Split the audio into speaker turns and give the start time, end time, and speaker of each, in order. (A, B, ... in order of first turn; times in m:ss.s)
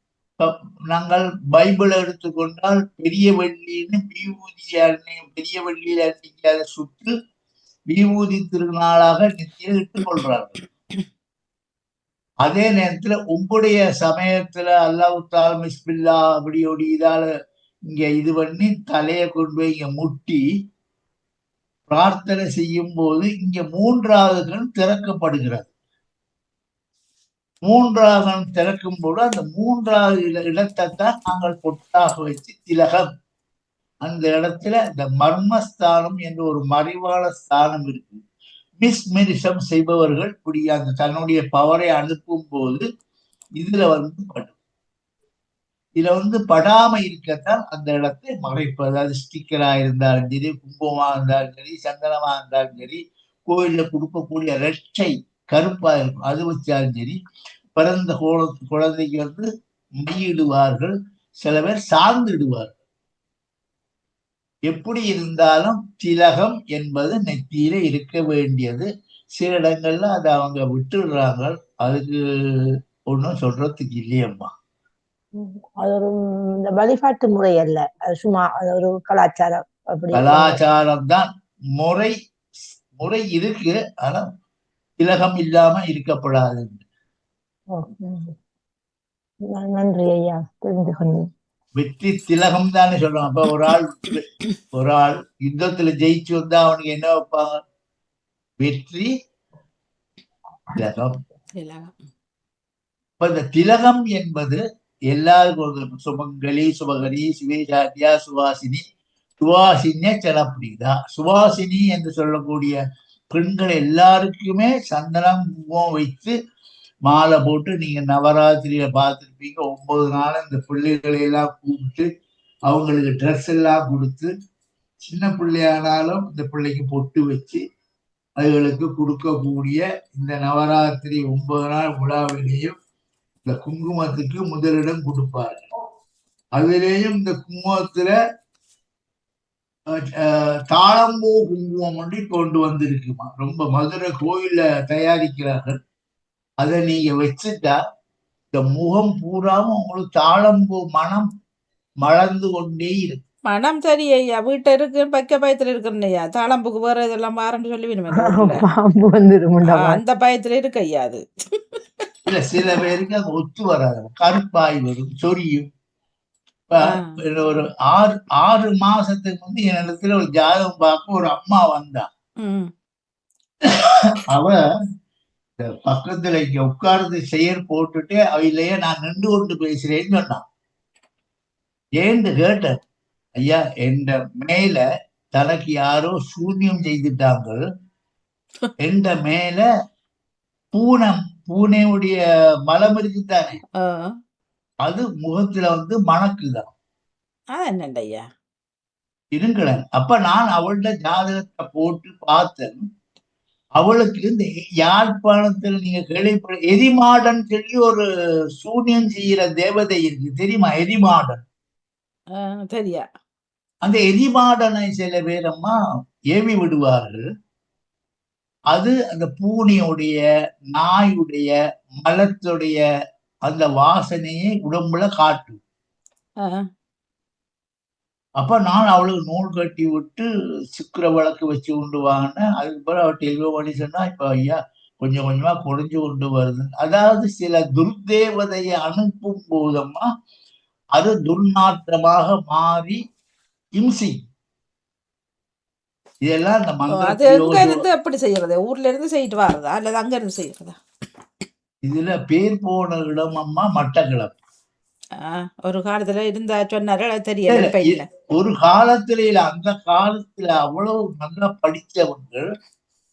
0:00.4-0:07.1 A
0:07.9-0:10.6 A
0:12.4-0:17.3 A
0:17.9-0:20.4 A
0:21.9-0:25.7 A
0:27.6-0:33.0 A
0:34.0-0:38.2 A
0:38.8-0:42.8 A
0:43.6-0:44.5 A
0:46.0-0:57.2 A
0:57.8-0:59.5 A
1:00.0-1:02.7 A
1:04.7-1:08.9 A
1:09.4-1:14.5 A
1:15.4-1:20.6 B
1:20.1-1:21.3 A
1:21.8-1:22.1 A
1:23.0-1:24.2 A
1:25.0-1:26.8 A
1:27.7-1:28.3 B
1:29.5-1:31.2 B
1:31.8-1:37.5 A
1:38.6-1:39.1 A
1:40.8-1:41.2 A
1:41.6-1:41.9 C
1:43.2-1:48.8 A
1:49.4-1:52.8 A
1:53.3-1:56.3 A
1:57.0-2:02.1 A
2:02.7-2:04.3 A
2:05.0-2:07.6 A
2:08.4-2:12.7 A
2:13.4-2:15.6 A
2:16.6-2:18.1 A
2:19.9-2:25.8 A
2:26.6-2:27.8 A
2:28.5-2:31.3 A
2:32.0-2:33.2 A
2:33.5-2:38.6 C
2:38.1-2:40.0 B
2:39.7-2:41.2 C
2:42.3-2:45.7 A
2:46.7-2:52.1 A
2:52.4-2:52.7 C
2:54.3-2:54.6 A
2:55.6-3:00.4 A
3:02.0-3:02.7 A
3:03.4-3:04.8 A
3:05.3-3:07.6 A
3:08.8-3:09.6 A
3:10.7-3:13.6 A
3:13.8-3:14.1 C
3:14.8-3:16.7 A
3:17.5-3:18.2 C
3:19.3-3:22.8 A
3:23.8-3:28.0 A
3:28.6-3:31.4 A
3:32.6-3:33.0 C
3:33.8-3:35.8 A
3:36.3-3:37.2 A
3:38.7-3:40.2 A
3:40.7-3:41.5 A
3:42.0-3:42.8 A
3:43.4-3:45.6 A
3:48.4-4:00.0 A
4:01.0-4:03.0 A
4:03.8-4:04.2 A
4:06.2-4:07.9 A
4:06.9-4:10.8 C
4:11.8-4:14.3 A
4:15.2-4:18.0 C
4:17.5-4:22.4 A